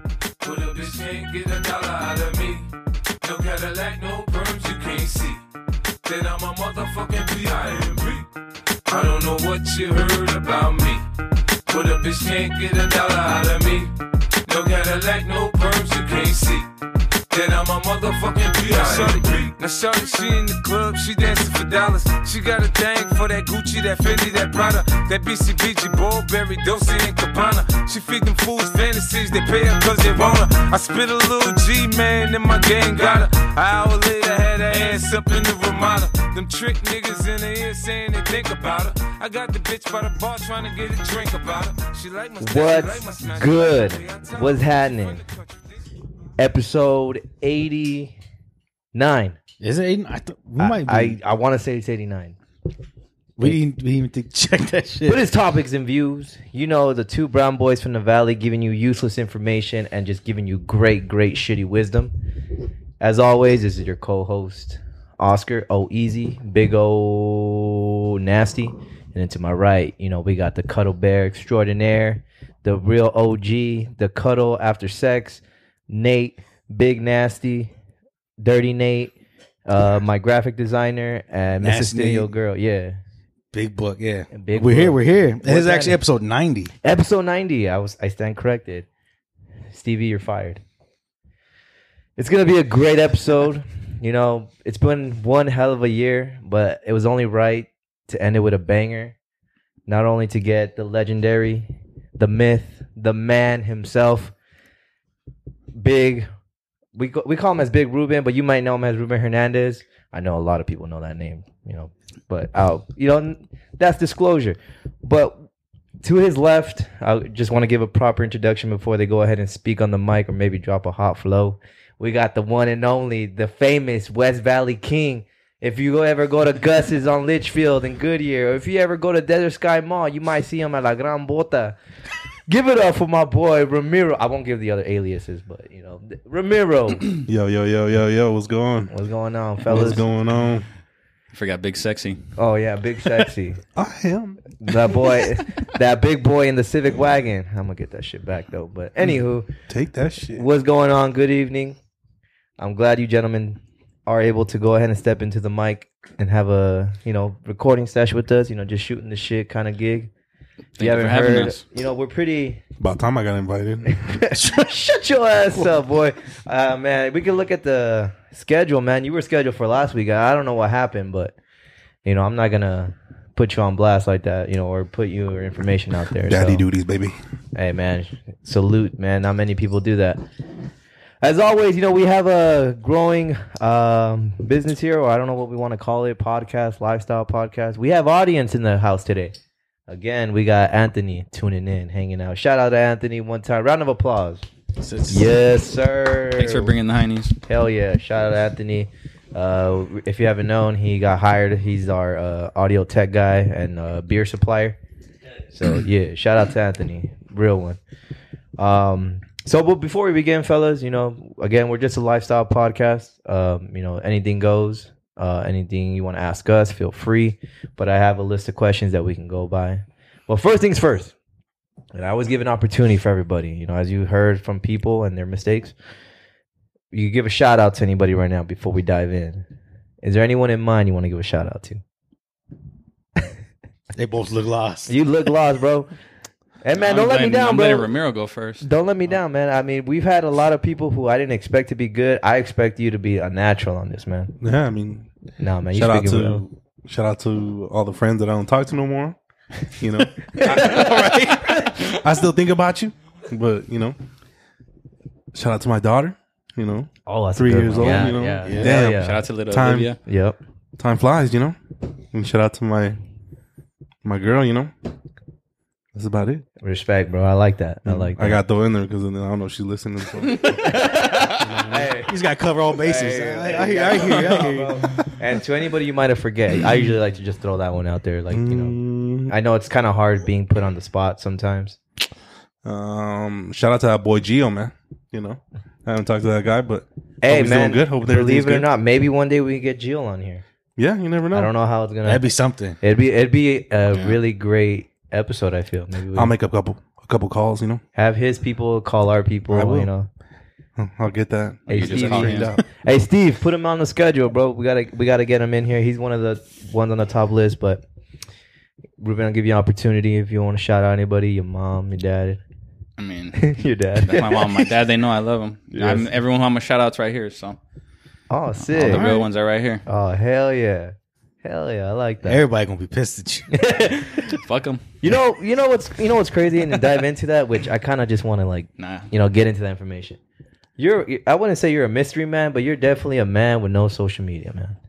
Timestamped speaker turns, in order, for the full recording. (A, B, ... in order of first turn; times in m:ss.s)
0:00.4-0:02.7 A
0:03.2-0:05.4 A
0:06.0-0:08.3 A
0:08.9-0:11.0 A
0:11.7-0:13.9 A
0:14.4-0:16.7 A
0:17.3-0:45.6 A
0:42.4-0:45.2 B
0:46.4-0:48.1 B
0:48.9-0:49.4 B
0:49.6-0:51.2 C
0:50.6-0:52.3 B
0:53.4-0:55.2 C
0:55.0-1:02.1 B
1:03.0-1:17.7 B
1:18.4-1:19.1 B
1:19.6-1:23.0 B
1:21.6-1:22.3 C
1:23.5-1:26.7 C
1:24.3-1:26.0 B
1:26.8-1:28.9 B
1:29.7-1:30.6 B
1:32.2-1:39.1 B
1:39.9-1:44.3 B
1:45.7-1:46.3 B
1:46.9-1:55.5 B
1:56.0-2:11.7 B
2:12.5-2:17.1 B
2:17.2-2:18.9 D
2:18.9-2:20.0 B
2:19.6-2:20.6 D
2:21.3-2:22.2 E
2:22.4-2:23.6 B
2:23.8-2:24.4 D
2:24.6-2:29.5 B
2:29.7-2:30.4 D
2:30.3-2:31.8 B
2:32.6-2:40.1 B
2:40.8-2:41.6 E
2:40.8-2:42.6 B
2:42.8-2:44.0 D
2:43.9-2:51.3 B
2:44.3-2:44.8 C
2:52.0-2:56.6 B
2:56.3-2:57.2 D
2:57.5-3:00.2 B
3:01.2-3:09.3 B
3:09.9-3:14.4 B
3:14.8-3:15.3 C
3:15.1-3:16.7 B
3:16.3-3:17.4 E
3:17.5-3:24.8 B
3:25.5-3:27.8 B
3:28.6-3:41.1 B
3:41.9-3:45.7 B
3:46.9-3:49.4 B
3:50.0-3:51.8 B
3:53.9-3:54.9 C
3:54.9-3:55.9 B
3:56.6-3:57.9 B
3:56.7-3:58.6 E
3:58.6-4:04.3 B
4:04.4-4:05.1 D
4:05.4-4:06.4 B
4:05.7-4:09.2 D
4:09.7-4:10.8 D
4:10.4-4:11.0 B
4:10.4-4:12.0 E
4:11.9-4:14.0 D
4:15.3-4:19.9 D
4:17.0-4:19.2 B
4:18.4-4:18.7 C
4:18.6-4:20.0 E
4:20.0-4:20.4 B
4:20.8-4:21.6 D
4:22.1-4:23.0 D
4:24.0-4:24.7 D
4:25.9-4:26.4 D
4:26.6-4:28.4 B
4:27.8-4:30.8 D
4:30.6-4:32.1 B
4:31.3-4:31.9 D
4:32.1-4:35.0 C
4:32.7-4:41.8 B
4:38.3-4:39.3 D
4:42.6-4:48.7 D
4:47.2-4:50.4 B
4:50.8-4:51.5 D
4:51.3-4:52.2 B
4:52.0-4:52.8 C
4:52.8-4:56.3 B
4:53.9-4:54.2 E
4:56.1-4:57.8 D
4:57.9-5:00.1 B
4:59.5-4:59.9 D
5:00.8-5:02.6 D
5:01.7-5:07.8 B
5:01.7-5:02.5 E
5:09.0-5:12.4 B
5:13.0-5:17.6 E
5:13.3-5:14.7 B
5:15.7-5:16.1 B
5:18.3-5:19.2 B
5:18.7-5:19.8 E
5:18.8-5:19.2 C
5:19.8-5:22.4 B
5:22.2-5:23.5 C
5:23.5-5:24.4 B
5:24.3-5:24.8 E
5:25.0-5:30.2 B
5:28.8-5:29.1 E
5:30.8-5:34.8 B